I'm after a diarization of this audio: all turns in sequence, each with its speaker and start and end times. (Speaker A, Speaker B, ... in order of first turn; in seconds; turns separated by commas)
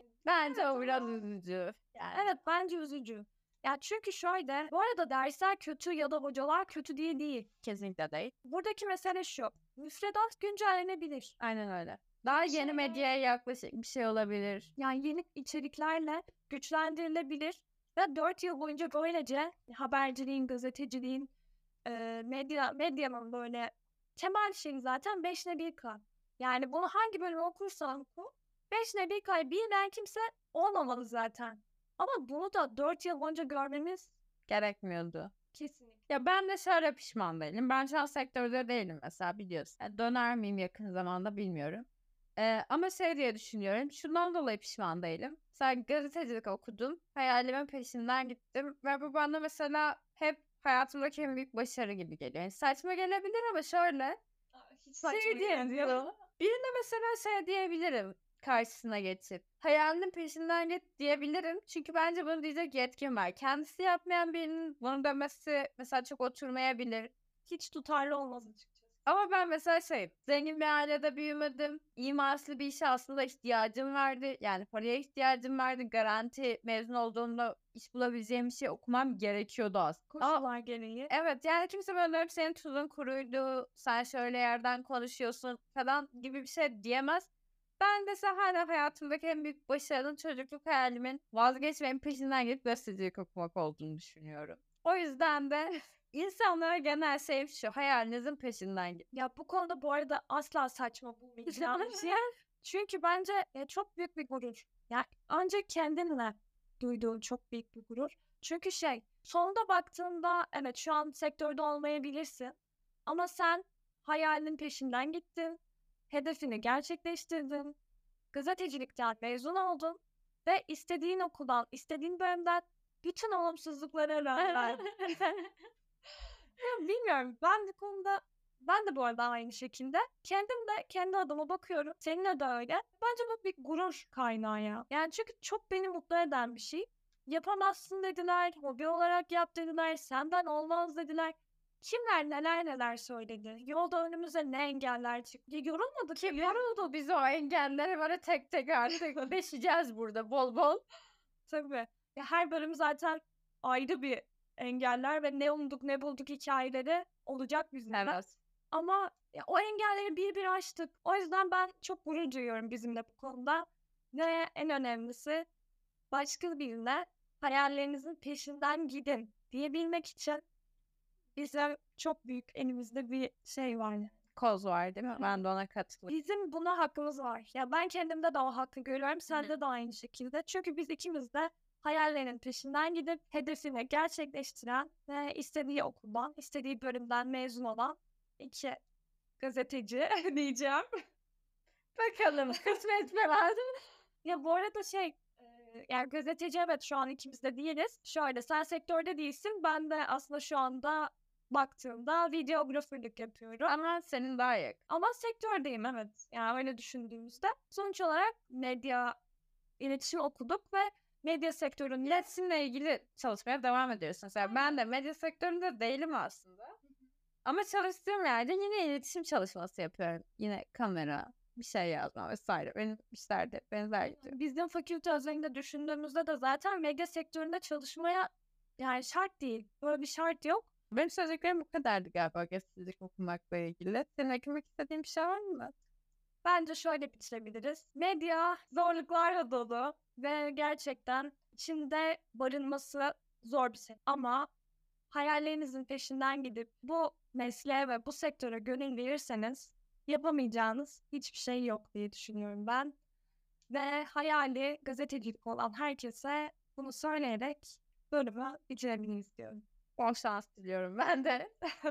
Speaker A: 0.2-2.2, Speaker B: 0.5-1.2, Speaker B: 2.1-7.5, Speaker A: 7.6-8.3, Speaker B: 8.4-11.3, Speaker A: 11.4-14.7, Speaker B: 12.4-13.0, Speaker B: 14.8-21.3, Speaker B: 21.9-34.1, Speaker A: 34.5-35.3, Speaker B: 35.5-36.0, Speaker A: 36.1-41.9, Speaker A: 42.4-54.2, Speaker B: 54.6-56.1, Speaker A: 55.0-67.1, Speaker B: 67.5-68.9, Speaker A: 69.1-80.4, Speaker B: 80.1-81.1, Speaker A: 81.1-87.3, Speaker A: 87.8-99.0, Speaker B: 99.1-112.5, Speaker A: 101.5-102.2, Speaker B: 113.1-115.6, Speaker B: 116.1-117.8, Speaker B: 118.3-124.9, Speaker A: 124.4-125.5, Speaker B: 126.6-146.7, Speaker A: 146.2-150.8, Speaker B: 151.5-165.4, Speaker A: 157.9-158.3, Speaker B: 166.1-170.4, Speaker B: 171.4-174.1, Speaker A: 174.4-176.1, Speaker B: 176.1-188.8, Speaker B: 189.4-190.9, Speaker A: 192.0-193.6, Speaker B: 194.2-203.7, Speaker A: 203.7-204.8, Speaker B: 204.9-209.2, Speaker B: 209.8-212.3, Speaker A: 212.1-216.8, Speaker A: 217.4-224.3, Speaker B: 224.2-230.7, Speaker A: 230.9-235.8, Speaker B: 236.4-244.5, Speaker B: 245.1-252.9, Speaker B: 253.7-259.6, Speaker A: 260.0-261.5